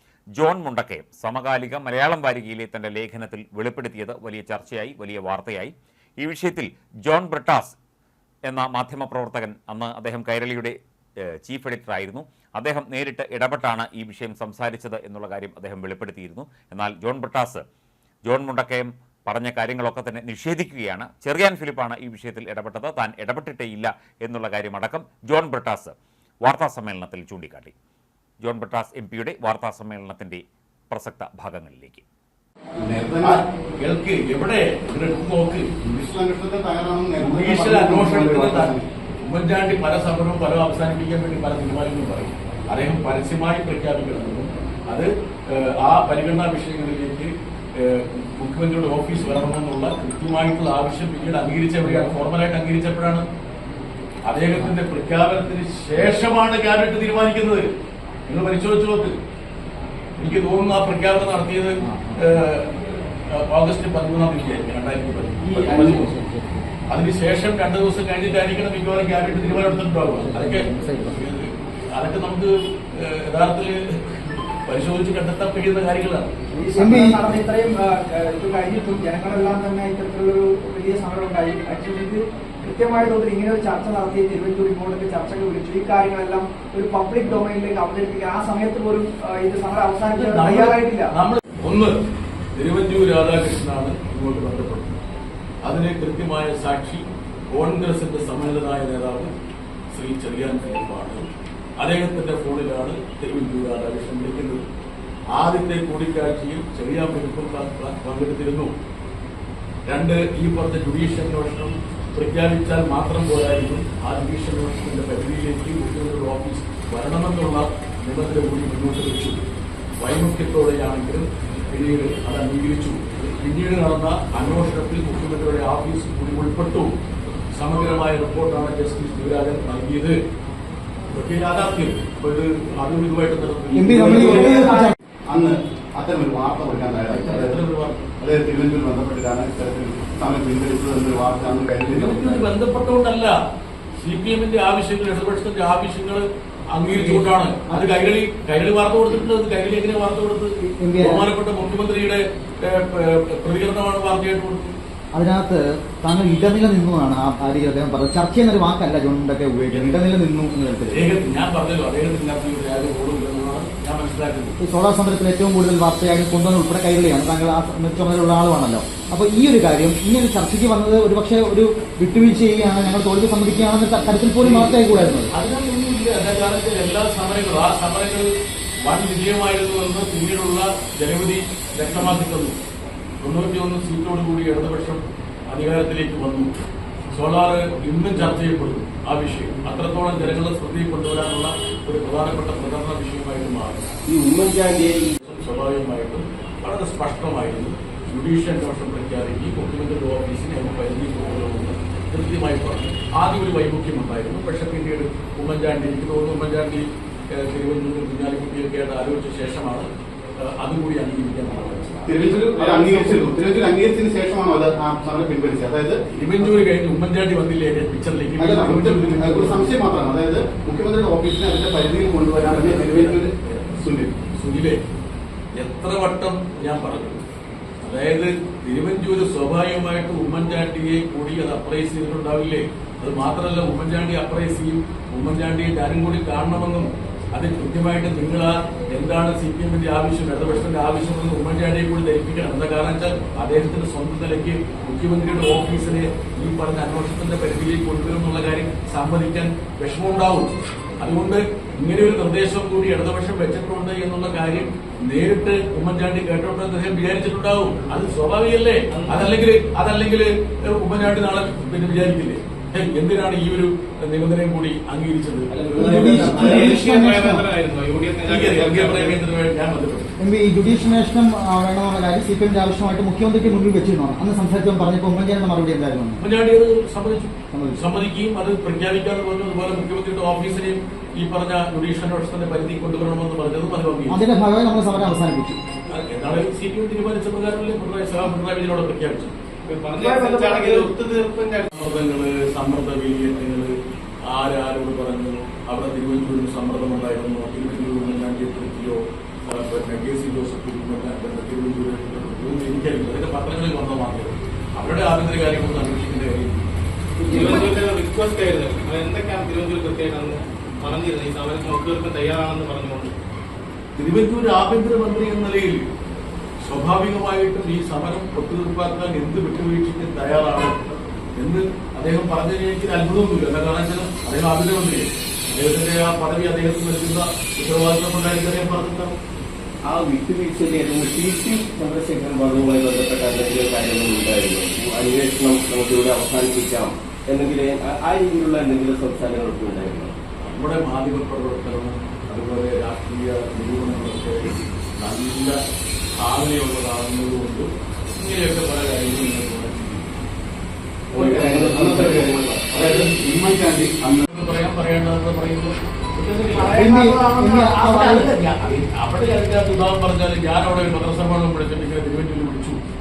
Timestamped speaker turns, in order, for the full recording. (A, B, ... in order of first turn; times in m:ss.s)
0:00.4-0:07.8 A
0:08.5-0:10.8 A
0:11.4-0:17.6 A
0:18.3-0:27.7 A
0:28.4-0:32.0 A
0:32.8-0:33.4 B
0:33.2-0:35.7 C
0:35.8-0:38.9 B
0:37.2-0:53.2 C
0:51.8-0:52.2 D
0:54.3-0:57.7 C
0:58.3-0:59.2 C
1:00.2-1:02.7 C
1:01.8-1:02.2 D
1:03.3-1:06.1 C
1:05.4-1:06.7 D
1:06.9-1:16.3 C
1:10.1-1:11.2 D
1:16.5-1:31.1 E
1:16.8-1:17.2 D
1:30.1-1:32.0 C
1:32.6-1:35.0 C
1:35.6-1:39.3 C
1:39.9-1:41.3 C
1:41.8-1:44.6 C
1:45.3-1:48.7 C
1:49.9-1:59.4 C
2:00.0-2:06.9 C
2:07.5-2:10.2 C
2:11.1-2:14.6 C
2:13.7-2:15.0 D
2:13.9-2:14.4 B
2:14.2-2:14.9 E
2:15.3-2:17.6 B
2:17.1-2:18.0 C
2:18.2-2:22.5 B
2:21.9-2:23.4 C
2:24.0-2:34.8 C
2:26.9-2:27.9 D
2:30.6-2:31.3 D
2:35.2-2:41.2 D
2:39.7-2:40.0 C
2:40.9-2:44.6 C
2:44.6-2:55.3 D
2:54.4-2:58.3 C
2:58.8-3:02.6 C
3:03.2-3:06.5 C
3:07.1-3:13.9 C
3:14.1-3:15.2 F
3:15.2-3:33.4 C
3:32.1-3:36.0 B
3:36.1-3:39.7 C
3:38.4-3:44.2 B
3:42.4-3:44.8 C
3:45.6-3:47.3 C
3:47.8-4:26.8 C
4:18.9-4:19.3 G
4:25.7-4:29.2 G
4:25.7-4:27.5 D
4:28.2-4:30.1 C
4:30.2-4:36.2 D
4:36.2-4:44.2 C
4:37.5-4:37.8 D
4:44.1-4:45.6 D
4:45.9-4:49.4 C
4:49.7-4:51.7 G
4:51.7-4:53.8 C
4:54.3-5:06.7 C
5:07.2-5:13.1 G
5:14.0-5:15.8 C
5:16.6-5:20.8 C
5:21.4-5:29.2 C
5:29.9-5:40.2 F
5:40.4-5:45.6 C
5:46.2-5:50.0 C
5:51.1-5:54.2 B
5:51.1-5:53.4 C
5:54.3-5:56.8 C
5:56.5-5:57.8 E
5:56.7-5:58.3 D
5:57.6-6:02.8 C